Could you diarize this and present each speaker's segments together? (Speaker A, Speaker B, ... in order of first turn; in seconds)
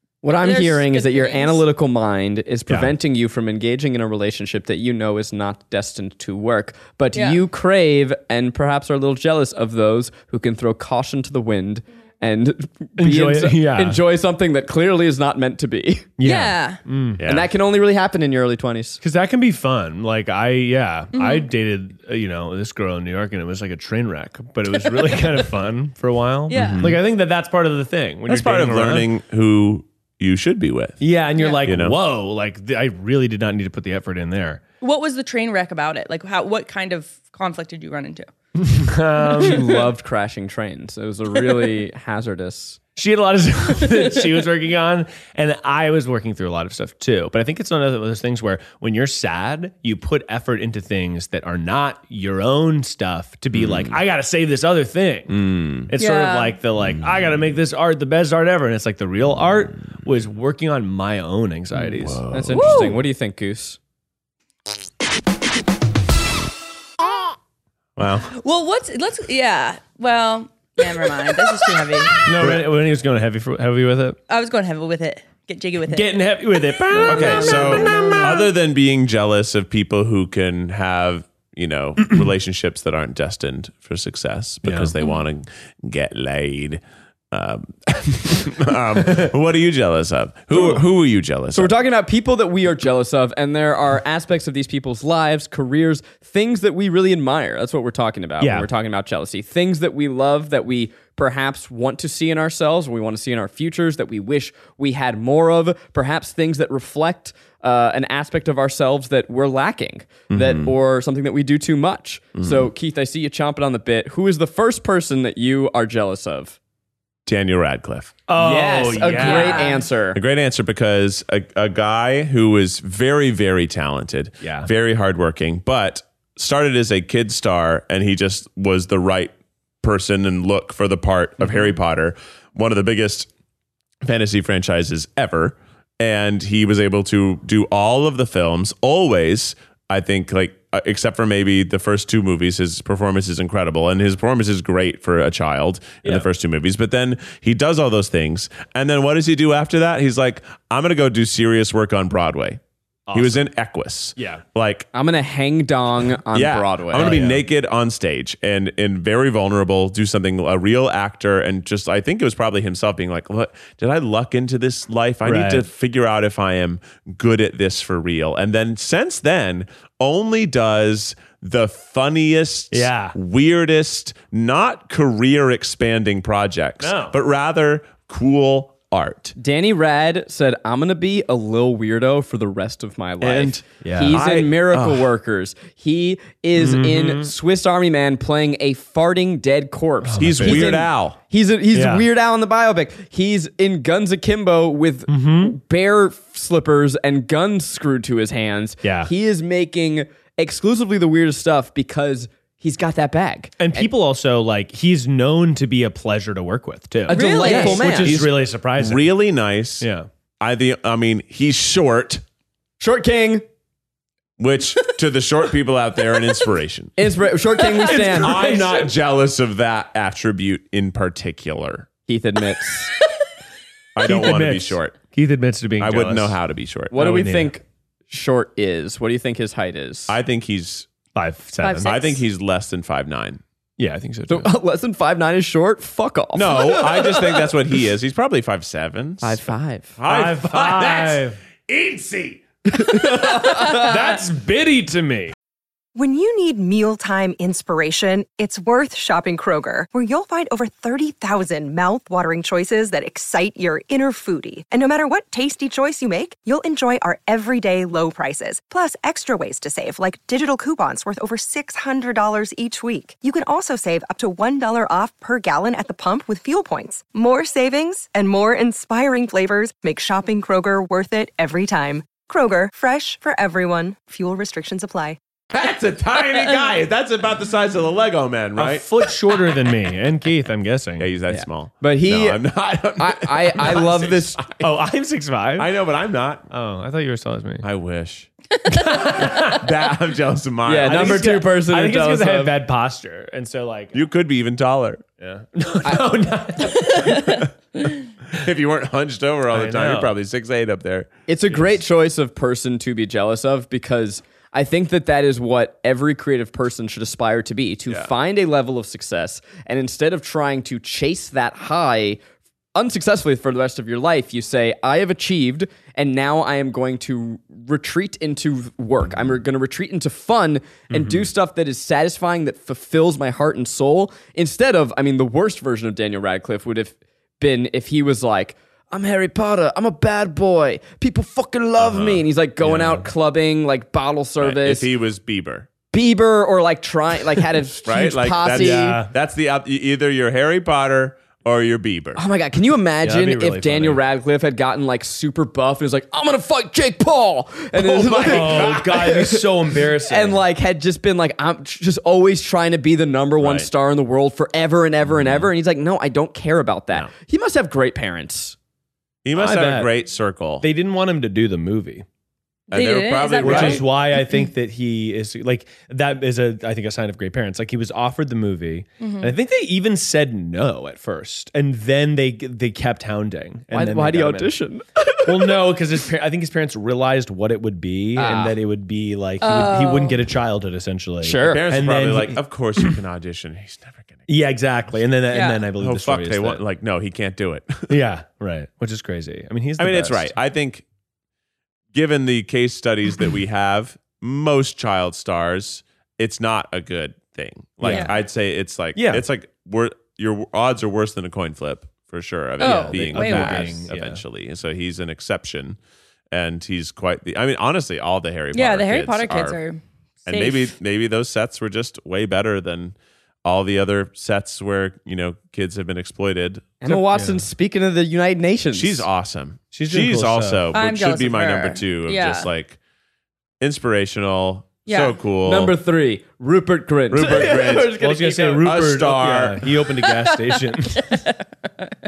Speaker A: 0.2-16.1, 17.2-19.0, 39.4-42.8, 62.3-63.8, 76.9-78.3, 91.5-116.6, 118.3-120.2, 154.9-157.2, 179.4-203.9, 207.1-208.2, 212.8-213.4, 217.0-218.4, 222.1-222.9, 226.9-230.2, 234.3-237.2, 239.2-239.9, 242.7-243.9, 281.3-282.4, 283.0-284.4, 290.6-292.5, 301.3-312.2, 312.7-334.9, 335.9-339.0, 342.1-349.5, 350.0-358.6, 373.7-375.6, 378.1-378.6, 381.2-381.6, 416.8-419.1, 425.4-428.7
Speaker B: 0.4-1.6, 7.1-7.4, 16.2-16.8, 21.1-21.5, 26.5-26.9, 31.4-31.6, 34.8-38.3, 56.0-56.5, 68.3-72.3, 74.3-78.4, 119.1-119.8, 207.1-207.9, 231.6-232.2, 296.6-297.4, 362.7-364.4, 369.0-369.3, 379.4-380.2, 385.3-385.6, 397.9-398.1, 402.6-403.8, 408.5-410.7, 420.7-422.5, 424.9-425.1, 430.1-430.4, 430.9-431.9
Speaker C: 2.7-2.9, 13.0-14.0, 16.2-17.2, 19.0-29.1, 31.0-34.6, 38.5-39.7, 43.0-62.2, 72.2-74.2, 75.9-78.2, 84.6-84.9, 89.0-89.3, 90.5-90.8, 98.4-98.7, 118.3-119.7, 124.4-124.7, 131.4-131.7, 153.1-153.4, 154.2-154.4, 156.9-157.4, 165.2-165.7, 172.7-173.2, 176.8-177.2, 183.3-184.3, 186.5-187.3, 190.0-190.8, 191.7-192.1, 195.1-195.6, 198.8-199.1, 203.6-209.1, 209.8-210.1, 217.8-218.9, 224.0-226.4, 226.9-227.5, 231.1-231.9, 233.8-234.5, 240.1-241.4, 242.9-245.3, 278.6-281.1, 284.6-285.7, 286.5-287.6, 288.7-289.6, 290.8-294.0, 295.2-297.4, 299.5-300.1, 320.9-321.3, 332.6-333.1, 338.5-339.1, 343.0-344.0, 348.2-350.4, 359.3-359.9, 360.6-362.0, 363.4-374.6, 375.2-382.9, 384.3-386.6, 387.9-390.3, 397.8-398.1, 398.9-399.2, 402.7-404.2, 416.9-417.4, 419.7-420.7, 427.4-431.2
Speaker D: 17.2-17.5, 26.5-27.0, 28.3-31.0, 31.6-32.0, 53.5-53.9, 55.3-55.9, 61.8-63.0, 68.0-68.3, 72.4-72.6, 77.0-91.7, 110.3-110.7, 112.3-112.7, 117.2-118.2, 120.1-133.3, 134.0-152.6, 153.1-154.9, 156.3-179.3, 183.2-183.6, 184.1-185.1, 190.2-191.2, 208.1-209.9, 210.4-212.2, 214.4-216.9, 218.0-221.9, 223.9-225.0, 225.8-226.9, 230.1-230.9, 231.8-233.4, 236.3-239.4, 240.0-242.4, 275.5-279.1, 281.0-284.7, 285.6-286.4, 287.6-288.3, 289.2-291.4, 293.9-295.1, 298.3-301.1, 331.8-332.3, 334.4-335.7, 337.8-342.2, 347.8-349.1, 353.4-353.7, 355.1-355.5, 359.2-360.6, 362.7-363.9, 381.4-384.3, 385.8-388.0, 389.8-390.8, 391.9-405.8, 406.3-409.6, 410.2-416.8, 418.7-422.8, 423.6-425.7, 427.1-428.0, 428.6-429.7
Speaker E: 245.9-275.2